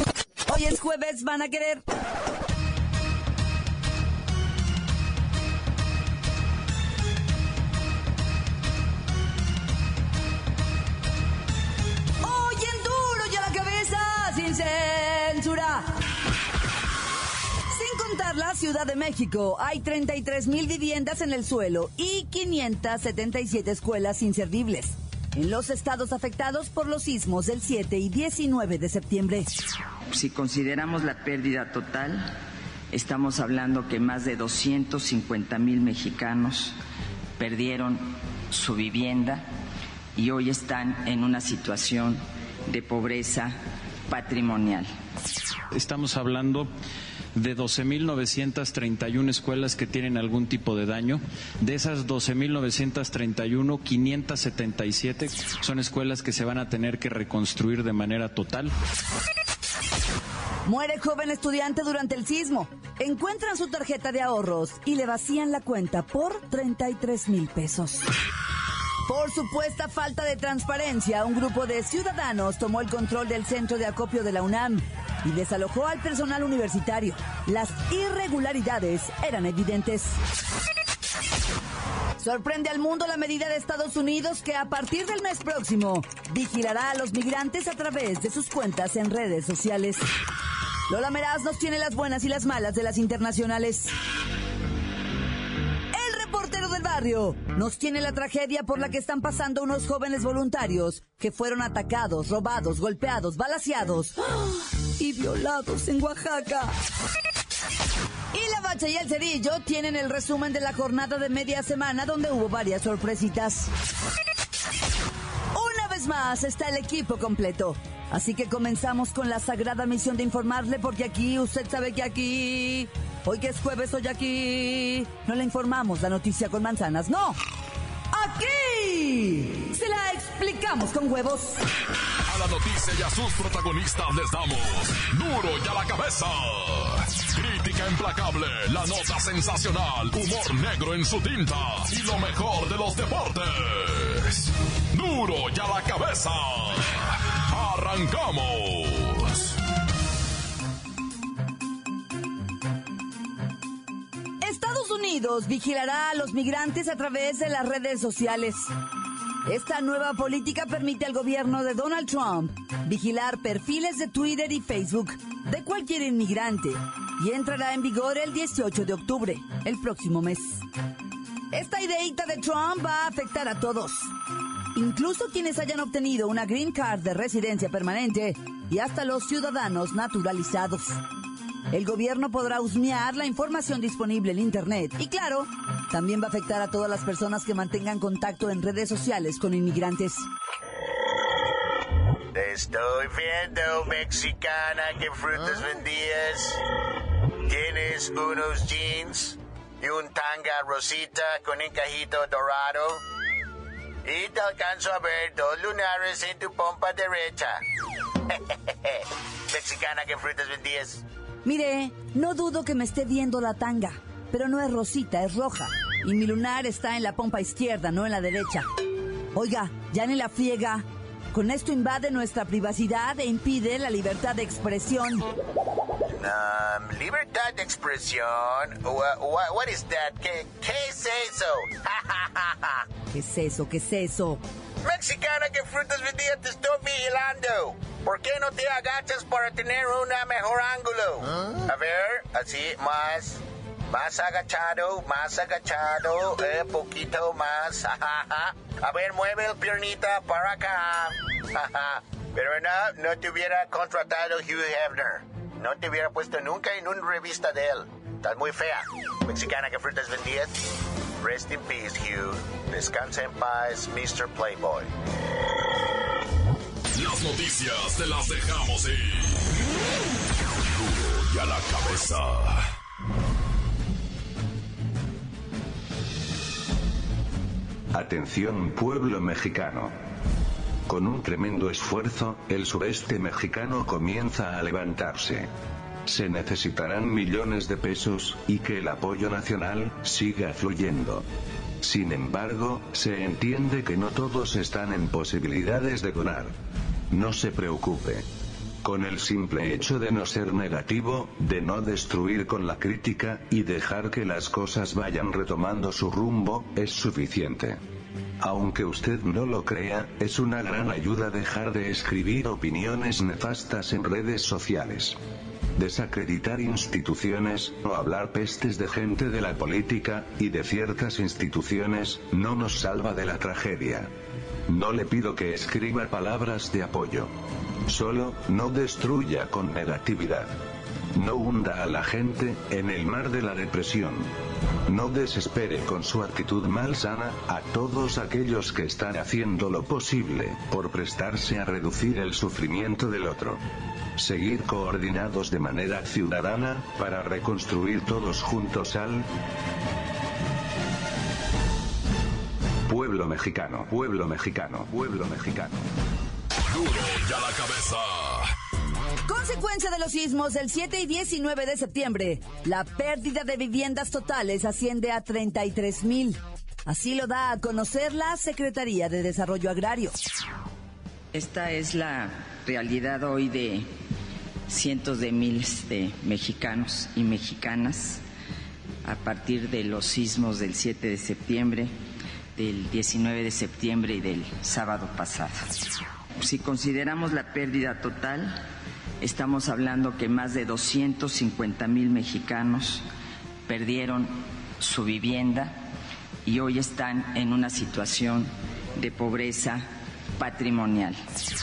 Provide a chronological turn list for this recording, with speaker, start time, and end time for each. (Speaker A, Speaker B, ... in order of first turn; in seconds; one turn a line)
Speaker A: 0.5-1.8
Speaker A: 12.2-15.9
Speaker A: 17.7-29.5
Speaker B: 30.1-32.3
Speaker B: 32.9-36.7
Speaker B: 37.4-39.5
Speaker B: 40.1-43.6
Speaker B: 44.1-44.9
Speaker C: 45.7-46.7
Speaker C: 47.3-58.7
Speaker A: 60.6-68.1
Speaker A: 69.0-80.2
Speaker A: 82.2-90.0
Speaker A: 90.9-93.9
Speaker A: 95.9-106.7
Speaker A: 108.3-113.7
Speaker A: 115.5-127.4
Speaker A: 128.1-131.6
Speaker D: 132.2-149.6
Speaker A: 154.4-158.7
Speaker A: 159.4-170.6
Speaker A: 171.5-174.1
Speaker A: 174.7-181.0
Speaker A: 181.7-190.3
Speaker E: 192.3-196.6
Speaker E: 197.4-203.0
Speaker E: 204.0-207.6
Speaker E: 208.3-211.0
Speaker A: 211.4-218.7
Speaker A: 219.3-225.2
Speaker E: 226.1-232.8
Speaker A: 233.1-234.4
Speaker E: 234.8-260.6
Speaker E: 261.2-264.9
Speaker D: 266.9-269.5
Speaker D: 270.6-272.6
Speaker F: 277.9-279.9
Speaker F: 280.9-285.5
Speaker F: 286.1-291.2
Speaker F: 291.8-296.5
Speaker F: 297.1-298.2
Speaker F: 298.8-307.8
Speaker F: 308.4-315.1
Speaker F: 315.8-324.1
Speaker F: 324.7-327.3
Speaker F: 327.9-330.5
Speaker F: 331.1-334.3
Speaker F: 334.9-343.6
Speaker F: 344.2-349.2
Speaker F: 352.9-355.8
Speaker D: 356.7-358.5
Speaker A: 359.3-370.1
Speaker B: 371.3-373.9
Speaker B: 374.7-378.2
Speaker B: 379.0-381.9
Speaker B: 382.6-385.6
Speaker B: 386.4-388.6
Speaker B: 389.2-393.0
Speaker B: 393.6-395.8
Speaker B: 396.4-399.8
Speaker B: 400.4-401.2